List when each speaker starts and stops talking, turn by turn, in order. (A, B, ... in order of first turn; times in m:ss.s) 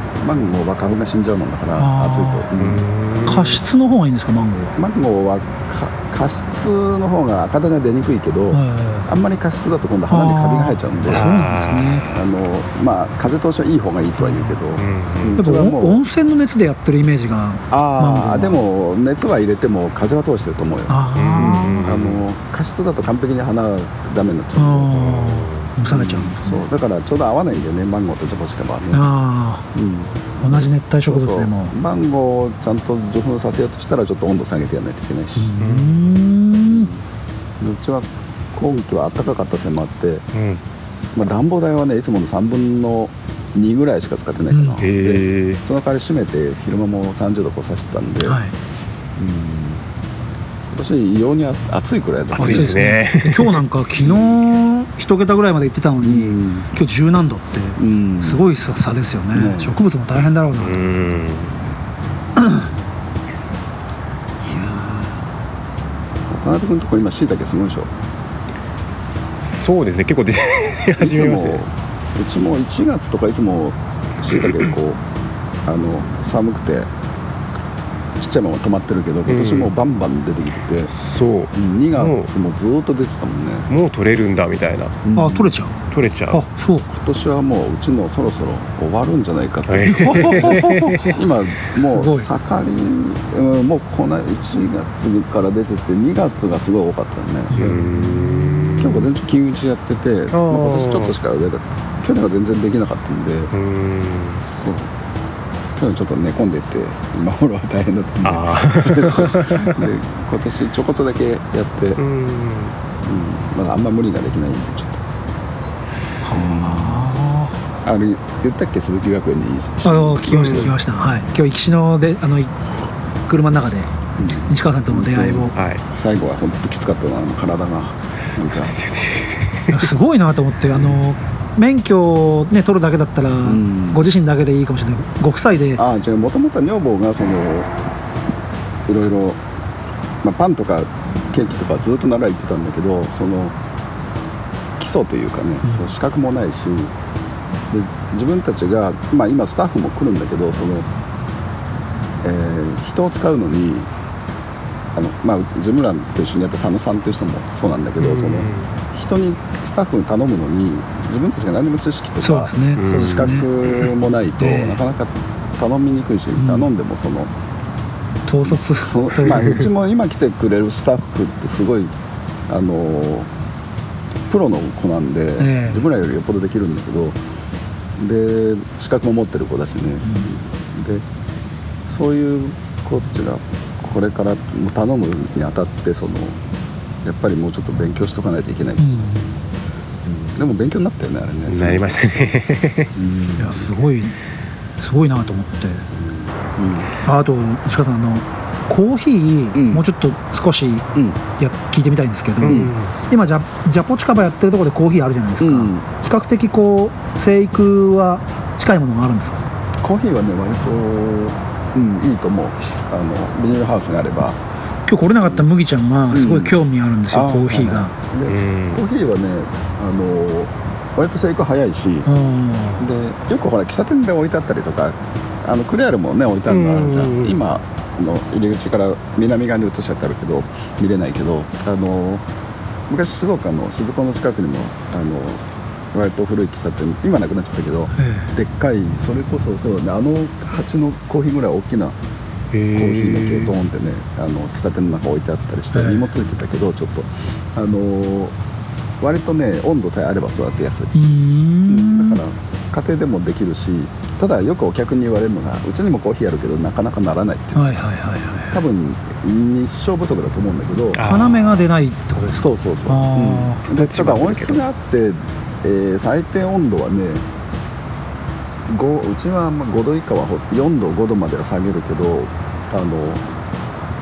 0:00.2-0:02.8 A
0:01.8-0:02.5 B
0:02.5-0:03.6 C
0:03.2-0:04.7 B
0:04.8-0:11.4 A
0:08.5-0:09.1 B
0:10.1-0:12.0 B
0:11.0-0:12.1 C
0:12.0-0:16.0 A
0:14.8-0:15.4 C
0:15.4-0:18.6 B
0:17.7-0:29.0 A
0:20.9-0:21.9 B
0:21.1-0:22.2 C
0:24.6-0:26.6 B
0:25.1-0:25.7 C
0:28.9-0:29.6 B
0:29.7-0:35.6 A
0:30.4-0:31.7 B
0:35.4-0:36.9 B
0:35.6-0:36.1 C
0:36.6-0:37.0 A
0:37.6-0:40.2 A
0:40.3-0:40.6 C
0:41.1-0:48.4 A
0:44.5-0:44.8 B
0:44.8-0:45.6 C
0:48.2-0:48.5 B
0:49.2-0:49.8 A
0:50.7-0:52.8 A
0:52.4-0:53.6 C
0:52.4-1:00.8 B
0:54.0-0:54.3 A
0:56.0-0:56.7 A
0:57.8-0:58.4 A
0:59.3-0:59.8 A
1:00.6-1:01.6 C
1:02.4-1:02.7 B
1:04.5-1:05.0 B
1:04.5-1:04.8 A
1:06.3-1:07.9 A
1:09.4-1:11.6 C
1:11.0-1:15.0 A
1:14.4-1:14.7 C
1:15.6-1:16.9 A
1:18.2-1:20.9 A
1:19.3-1:19.7 C
1:20.9-1:22.3 C
1:21.5-1:23.7 A
1:23.7-1:25.0 C
1:25.0-1:25.5 A
1:25.1-1:25.7 B
1:25.9-1:26.4 C
1:26.3-1:26.9 B
1:26.9-1:37.8 A
1:29.7-1:31.2 C
1:29.8-1:30.7 B
1:31.7-1:32.3 B
1:37.5-1:38.7 B
1:37.5-1:39.1 C
1:38.8-1:43.5 A
1:40.4-1:41.1 C
1:43.5-1:44.4 C
1:44.5-1:44.9 A
1:45.8-1:52.0 A
1:48.2-1:49.8 C
1:52.0-1:52.7 C
1:53.0-1:55.0 A
1:56.2-1:57.6 B
1:56.3-1:57.1 A
1:57.8-2:01.1 A
1:59.8-2:02.6 B
2:00.3-2:00.7 C
2:03.3-2:03.9 B
2:04.2-2:08.8 A
2:04.5-2:05.5 B
2:05.5-2:05.8 C
2:08.4-2:09.9 C
2:09.7-2:15.8 B
2:13.4-2:14.0 A
2:15.8-2:17.7 A
2:18.9-2:19.4 A
2:20.2-2:23.5 A
2:24.8-2:26.9 A
2:27.7-2:30.9 A
2:32.2-2:33.9 A
2:34.9-2:47.3 A
2:38.0-2:38.8 C
2:42.2-2:43.5 B
2:42.8-2:43.9 C
2:44.4-2:44.8 B
2:46.4-2:46.7 B
2:48.3-2:49.6 B
2:48.4-2:51.9 A
2:52.5-2:53.3 A
2:54.3-2:57.2 A
2:55.4-2:55.9 B
2:58.0-3:01.0 A
3:00.0-3:00.3 B
3:01.9-3:06.4 A
3:07.0-3:09.1 A
3:08.8-3:09.4 B
3:10.0-3:12.3 A
3:11.5-3:12.9 C
3:12.9-3:13.7 A
3:13.4-3:14.2 B
3:14.8-3:15.8 B
3:15.9-3:16.9 A
3:17.0-3:20.8 B
3:19.5-3:19.8 A
3:21.4-3:29.5 B
3:22.4-3:22.9 C
3:22.4-3:22.7 A
3:25.4-3:25.8 A
3:29.8-3:34.4 A
3:34.9-3:37.9 B
3:36.1-3:36.6 A
3:37.1-3:42.1 A
3:38.3-3:38.8 C
3:42.0-3:42.9 B
3:42.8-3:52.2 A
3:46.5-3:47.4 C
3:52.9-4:01.9 A
3:58.0-3:58.3 B
4:02.5-4:03.5 C
4:02.7-4:08.4 A
4:05.7-4:06.1 B
4:09.0-4:10.9 A
4:10.9-4:12.2 B
4:11.7-4:17.7 A
4:17.5-4:18.6 B
4:18.5-4:21.0 A
4:20.9-4:21.7 C
4:21.0-4:23.6 B
4:22.4-4:27.2 A
4:23.6-4:24.6 C
4:28.7-4:33.2 A